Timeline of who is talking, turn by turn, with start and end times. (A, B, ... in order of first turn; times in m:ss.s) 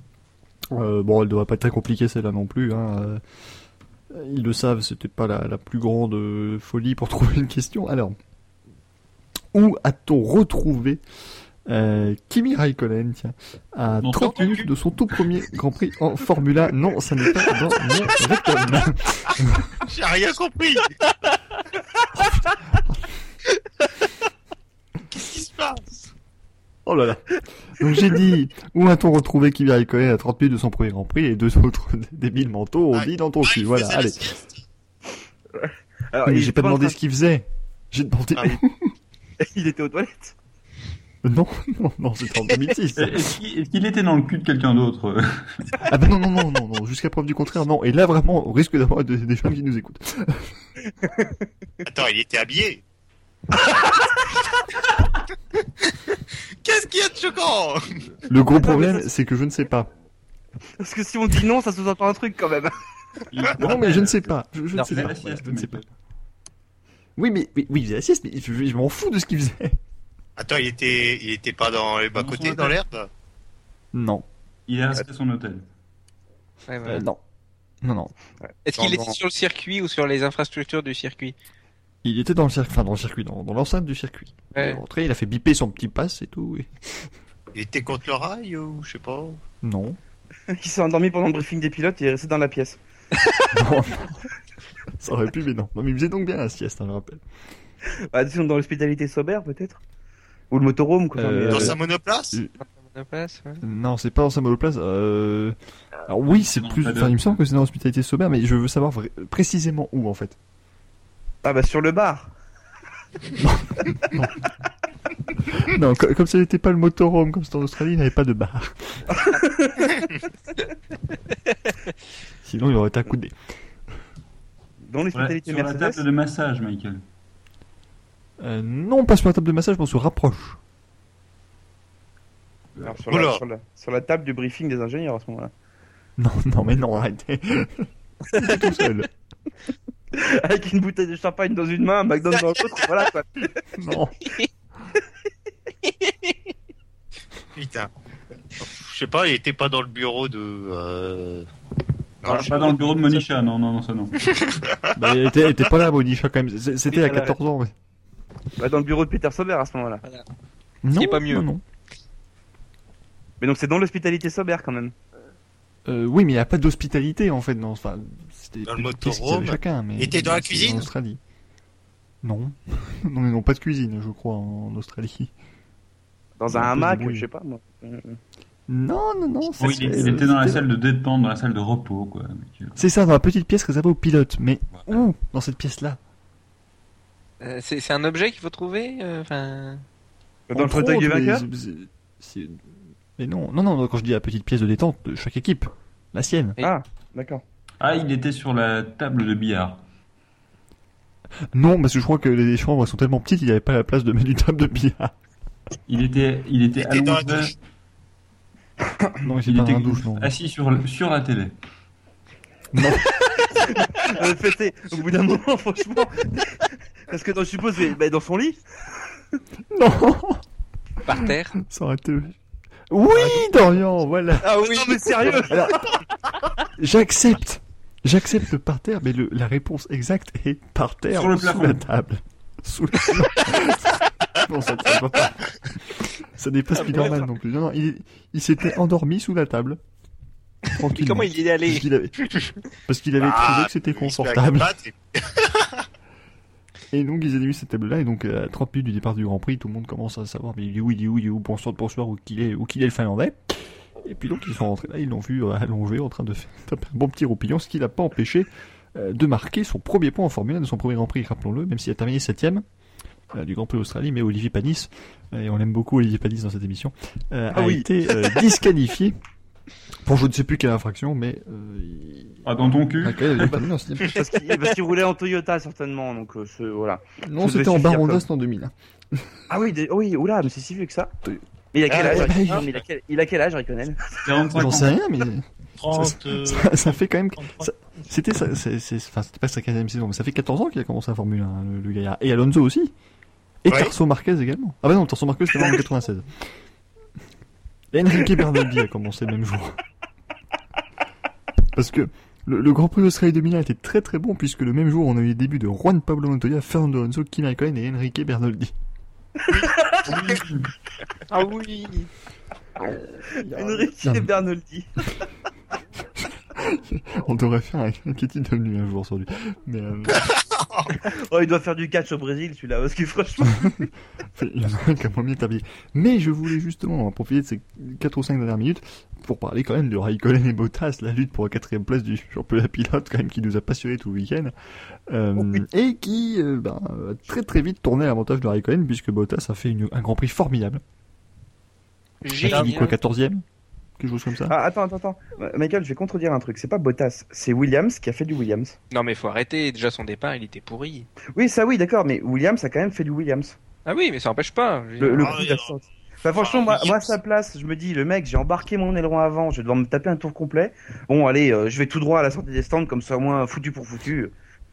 0:00.7-0:03.2 A
0:04.1-0:08.2 A
0:09.5-0:11.0 A
0:11.6-0:19.8 A
0:14.0-0:14.7 B
0:19.8-0:21.0 C
0:22.2-0:23.1 A
0:25.1-0:26.1 C
0:26.8-0:34.3 A
0:32.9-0:34.6 C
0:35.5-0:36.9 D
0:36.2-0:38.9 A
0:39.4-0:40.3 D
0:41.2-0:43.4 A
0:43.0-0:45.8 B
0:45.8-0:50.5 A
0:51.0-0:51.4 D
0:51.8-0:52.8 C
0:56.6-0:58.0 C
0:58.2-0:59.9 A
0:58.6-0:59.0 D
1:00.8-1:02.8 D
1:03.3-1:04.2 B
1:03.6-1:05.9 A
1:04.8-1:05.8 B
1:07.2-1:09.8 A
1:10.4-1:13.1 C
1:12.1-1:12.8 B
1:13.9-1:14.2 A
1:14.7-1:15.6 B
1:16.7-1:17.1 E
1:16.8-1:17.2 A
1:17.8-1:18.1 A
1:18.6-1:21.3 E
1:18.8-1:19.2 D
1:22.0-1:27.1 A
1:24.5-1:24.8 E
1:27.5-1:29.4 C
1:29.6-1:30.0 A
1:30.5-1:32.8 D
1:33.2-1:33.5 E
1:33.5-1:34.3 A
1:35.0-1:37.2 A
1:38.1-1:39.8 D
1:40.5-1:41.8 D
1:41.2-1:41.8 A
1:41.5-1:42.4 C
1:42.6-1:43.6 E
1:43.6-1:45.6 A
1:46.1-1:50.4 A
1:46.3-1:47.4 B
1:51.4-1:52.3 D
1:53.4-1:54.4 A
1:55.5-1:59.1 A
1:59.1-1:59.9 D
2:02.4-2:03.3 A
2:04.8-2:06.0 D
2:05.1-2:07.0 B
2:08.4-2:10.6 A
2:12.8-2:15.5 D
2:13.1-2:13.4 C
2:16.2-2:19.1 A
2:20.1-2:23.6 D
2:23.8-2:24.1 A
2:25.8-2:26.4 E
2:27.5-2:27.9 C
2:28.6-2:31.5 C
2:32.2-2:32.8 C
2:32.3-2:32.8 D
2:32.3-2:34.1 B
2:34.4-2:34.9 C
2:34.9-2:37.7 A
2:36.9-2:37.3 E
2:38.6-2:40.0 D
2:40.8-2:41.6 A
2:40.9-2:41.5 E
2:43.4-2:44.9 D
2:45.9-2:51.2 A
2:48.6-2:50.9 C
2:52.2-2:55.3 A
2:56.4-2:58.2 D
2:56.5-2:57.2 A
2:58.7-3:00.6 A
2:59.6-3:02.8 B
3:02.8-3:06.0 A
3:07.4-3:09.8 E
3:10.5-3:11.4 D
3:10.5-3:12.6 A
3:13.2-3:16.6 A
3:16.6-3:17.4 D
3:17.8-3:19.8 B
3:21.5-3:25.1 A
3:25.9-3:27.5 B
3:26.8-3:27.5 C
3:29.2-3:30.3 A
3:29.4-3:31.5 B
3:32.7-3:33.2 A
3:33.3-3:38.6 D
3:39.7-3:40.4 A
3:41.0-3:41.6 E
3:41.1-3:42.4 A
3:42.9-3:44.5 A
3:44.4-3:45.8 D
3:44.6-3:45.4 E
3:45.5-3:46.0 A
3:46.8-3:59.8 A
3:51.1-3:51.8 B
3:56.7-3:57.2 E
3:56.8-3:57.2 D
4:00.7-4:01.8 E
4:00.7-4:04.7 A
4:03.2-4:05.8 C
4:06.9-4:22.6 A
4:23.3-4:29.2 A
4:27.5-4:27.9 D
4:30.0-4:32.4 A
4:32.4-4:33.6 B
4:33.0-4:34.2 A
4:34.0-4:38.2 D
4:37.2-4:39.3 A
4:39.5-4:41.1 D
4:41.7-4:44.0 D
4:41.9-4:42.8 C
4:41.9-4:42.7 A
4:44.2-4:45.0 B
4:44.5-4:52.9 A
4:45.8-4:48.0 C
4:53.6-4:56.5 A
4:53.7-4:53.9 C
4:57.9-4:59.8 A
5:01.7-5:08.7 A
5:09.4-5:10.1 D
5:10.0-5:10.7 B
5:11.3-5:12.1 E
5:13.2-5:14.3 A
5:13.5-5:15.0 D
5:16.2-5:20.3 A
5:20.2-5:20.9 C
5:21.0-5:23.7 D
5:23.5-5:34.5 A
5:35.1-5:40.8 A
5:35.4-5:35.6 D
5:42.2-5:43.0 E
5:42.3-5:43.4 A
5:44.0-5:44.5 A
5:44.5-5:48.8 D
5:48.9-5:51.1 E
5:51.3-5:53.6 D
5:53.8-5:55.4 E
5:55.0-6:04.3 D
5:55.1-5:55.8 C
5:56.4-5:57.2 C